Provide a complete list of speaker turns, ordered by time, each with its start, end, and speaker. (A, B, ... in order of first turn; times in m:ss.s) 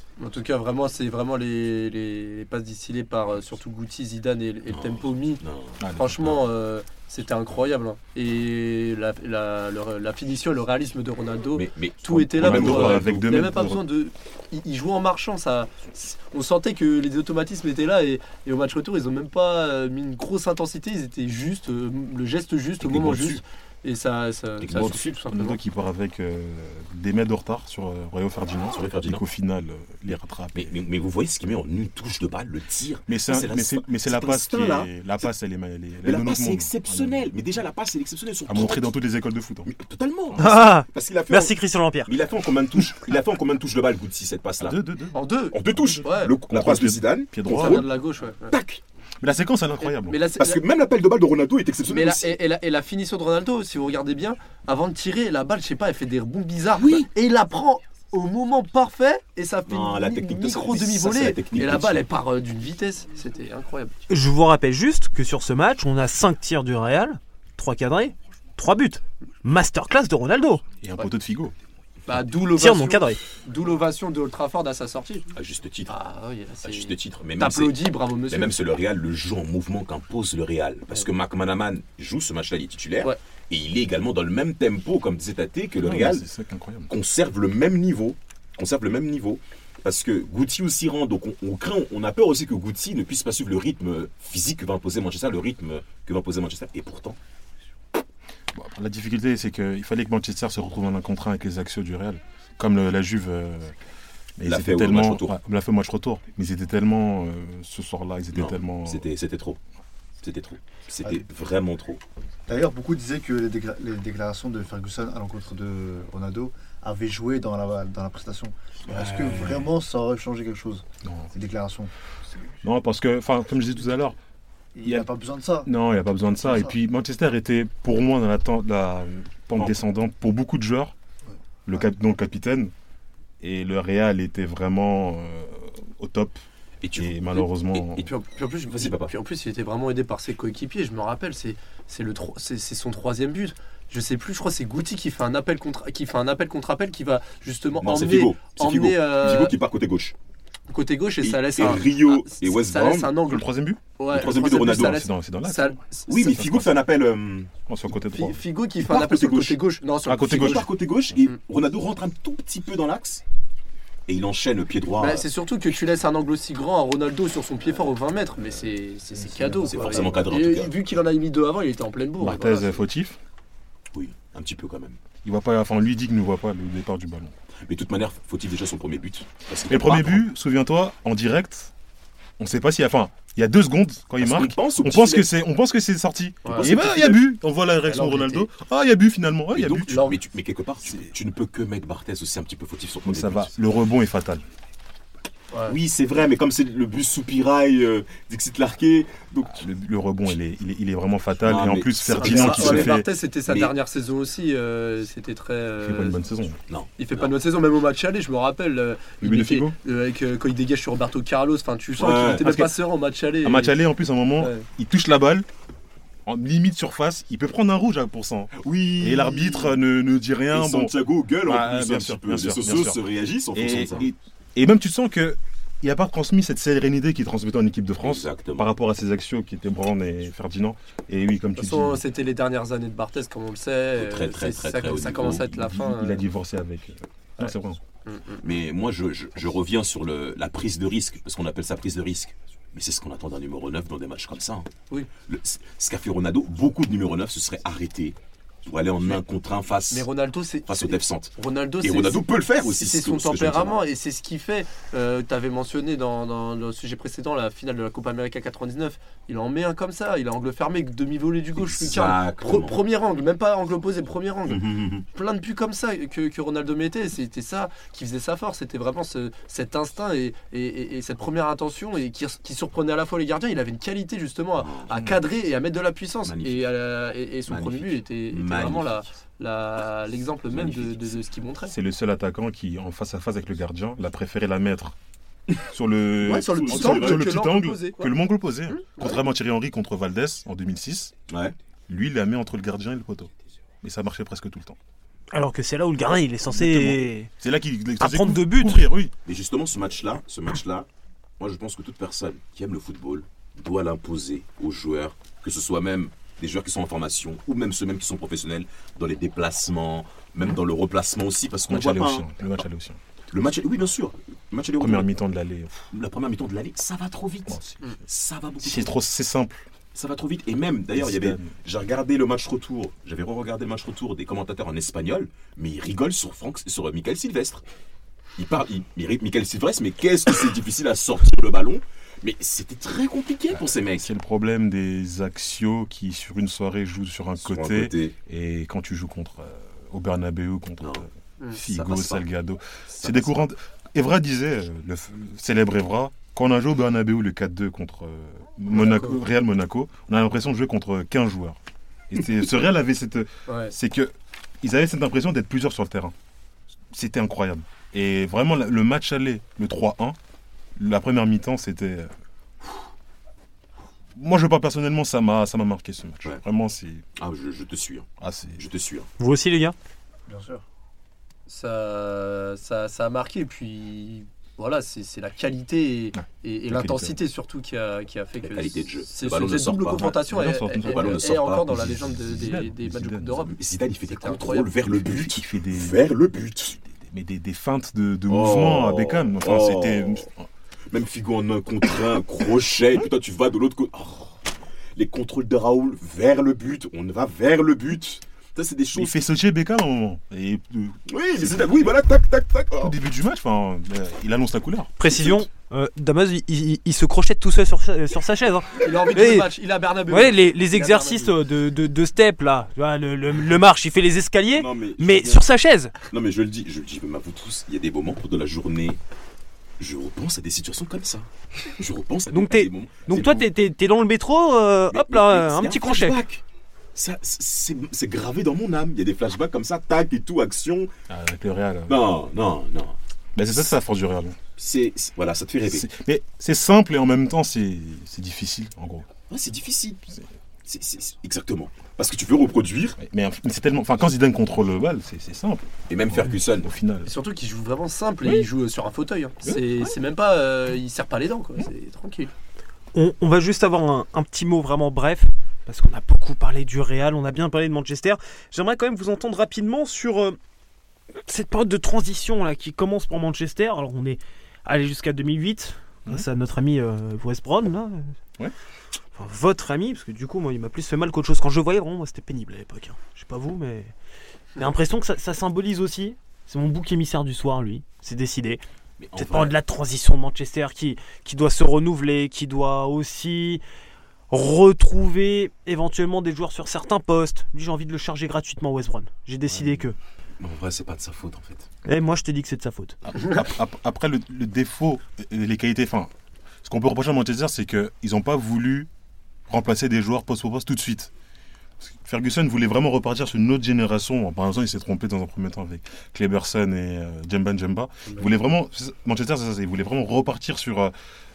0:00.2-0:05.4 A
0:04.7-0:05.8 B
0:05.8-0:06.4 C
0:06.0-0:25.6 A
0:11.6-0:13.4 B
0:12.3-0:13.8 C
0:22.8-0:23.4 B
0:24.6-0:25.1 B
0:24.8-0:30.8 C
0:28.7-0:29.2 B
0:30.5-0:35.3 B
0:33.1-0:37.3 C
0:36.0-0:39.0 B
0:38.5-0:39.7 C
0:39.7-0:44.8 B
0:40.4-0:42.1 D
0:44.6-0:47.9 C
0:45.1-0:46.4 A
0:45.5-0:47.9 B
0:47.5-0:48.6 A
0:48.5-0:48.8 B
0:49.2-0:50.2 C
0:49.8-0:50.6 A
0:50.4-0:52.4 B
0:51.9-1:04.0 A
0:59.7-1:02.1 B
1:04.1-1:10.6 D
1:10.8-1:11.5 C
1:12.1-1:15.3 A
1:12.5-1:13.2 D
1:15.3-1:15.9 B
1:15.9-1:18.6 A
1:16.6-1:26.3 B
1:25.8-1:26.9 C
1:26.9-1:37.2 B
1:38.5-1:43.8 C
1:44.4-1:49.1 C
1:44.4-1:45.3 B
1:48.3-1:49.6 B
1:50.2-1:52.0 B
1:52.5-2:01.9 E
1:59.1-1:59.7 C
2:01.0-2:01.3 C
2:02.6-2:04.2 C
2:04.8-2:05.7 E
2:04.8-2:05.1 C
2:05.6-2:10.9 C
2:06.4-2:06.7 E
2:11.7-2:12.7 C
2:13.4-2:16.4 C
2:16.8-2:18.0 B
2:17.0-2:18.1 C
2:18.0-2:29.6 A
2:18.7-2:19.1 B
2:27.8-2:30.1 B
2:30.7-2:33.5 A
2:31.2-2:33.2 B
2:33.3-2:36.8 C
2:34.0-2:36.1 A
2:34.1-2:35.0 B
2:36.1-2:37.5 B
2:37.7-2:38.4 C
2:38.1-2:40.7 A
2:38.8-2:43.2 B
2:40.0-2:40.7 C
2:44.1-2:45.3 B
2:45.0-2:52.8 A
2:49.2-2:50.2 E
2:49.6-2:50.7 B
2:52.2-2:53.2 C
2:53.9-2:55.0 B
2:55.2-2:57.3 C
2:57.7-3:00.3 B
2:59.7-3:01.7 C
3:02.4-3:10.1 C
3:04.2-3:05.3 B
3:06.4-3:06.7 A
3:06.5-3:07.3 B
3:07.8-3:08.5 A
3:09.6-3:13.5 B
3:09.9-3:10.2 A
3:13.1-3:14.4 C
3:15.5-3:15.8 A
3:15.7-3:19.6 B
3:19.5-3:23.1 C
3:21.4-3:23.7 B
3:22.2-3:26.2 A
3:25.8-3:26.6 C
3:26.7-3:27.3 B
3:27.0-3:33.8 A
3:29.2-3:29.8 C
3:32.0-3:32.5 B
3:32.4-3:32.7 C
3:33.4-3:35.5 C
3:34.4-3:34.7 A
3:36.3-3:43.0 C
3:38.5-3:39.8 B
3:40.5-3:44.1 B
3:43.5-3:52.0 C
3:48.0-3:48.7 B
3:51.6-3:56.2 A
3:54.0-3:55.8 B
3:55.6-3:57.8 C
3:58.1-3:58.4 A
3:58.4-4:04.7 B
4:05.3-4:10.1 B
4:09.9-4:41.8 A
4:10.7-4:13.8 B
4:21.6-4:22.8 B
4:24.5-4:25.1 B
4:34.6-4:35.2 B
4:36.3-4:36.7 B
4:37.5-4:39.1 B
4:40.5-4:41.2 B
4:41.7-4:45.0 C
4:45.6-4:51.1 C
4:46.2-4:47.3 B
4:46.3-4:48.2 A
4:48.7-4:49.2 A
4:51.3-4:51.6 B
4:51.9-4:53.3 C
4:53.8-4:54.8 C
4:55.3-4:57.3 D
4:56.5-4:59.1 C
4:58.0-4:58.9 D
4:59.2-5:00.9 B
5:01.4-5:12.6 B
5:11.7-5:13.0 C
5:13.3-5:15.1 B
5:14.8-5:15.8 C
5:15.9-5:18.9 B
5:17.5-5:18.0 C
5:18.6-5:19.7 C
5:19.9-5:27.6 B
5:21.0-5:21.6 C
5:28.4-5:34.1 B
5:33.5-5:51.6 C
5:37.4-5:38.2 B
5:40.8-5:41.1 B
5:41.6-5:42.2 B
5:42.9-5:43.4 B
5:48.7-5:49.2 A
5:52.1-5:56.1 C
5:53.5-5:53.7 A
5:56.9-6:00.2 C
6:00.8-6:02.1 C
6:04.2-6:07.0 C
6:07.2-6:09.1 B
6:08.2-6:08.6 C
6:09.2-6:09.8 D
6:10.3-6:10.6 E
6:11.5-6:23.6 A
6:16.2-6:17.2 C
6:18.4-6:20.2 B
6:20.0-6:23.5 C
6:20.8-6:21.8 B
6:23.5-6:26.8 B
6:24.1-6:24.7 A
6:24.8-6:26.1 C
6:27.0-6:30.5 C
6:28.3-6:30.3 B
6:30.9-6:34.4 B
6:35.0-6:39.2 B
6:38.9-6:42.0 C
6:41.1-6:43.0 B
6:42.8-6:45.0 C
6:45.0-6:49.5 D
6:45.0-6:45.4 B
6:48.8-6:51.4 A
6:50.1-6:56.0 D
6:54.5-6:55.5 B
6:56.0-6:59.0 B
6:59.8-7:03.5 B
7:02.3-7:06.2 D
7:04.9-7:06.4 B
7:07.0-7:10.9 B
7:11.1-7:12.0 C
7:11.9-7:13.0 B
7:13.4-7:14.4 C
7:14.6-7:15.8 B
7:15.7-7:19.1 C
7:19.3-7:23.0 B
7:23.0-7:27.1 C
7:25.9-7:26.7 B
7:27.0-7:32.3 A
7:29.4-7:29.9 C
7:32.9-7:40.4 D
7:41.2-7:48.1 D
7:49.2-7:53.9 D
7:54.6-7:58.6 D
7:59.0-7:59.6 B
7:59.2-8:03.6 D
8:04.3-8:10.0 D
8:10.4-8:11.7 B
8:11.9-8:13.0 D
8:13.0-8:16.1 C
8:16.6-8:18.9 C
8:19.5-8:21.1 C
8:21.8-8:30.9 C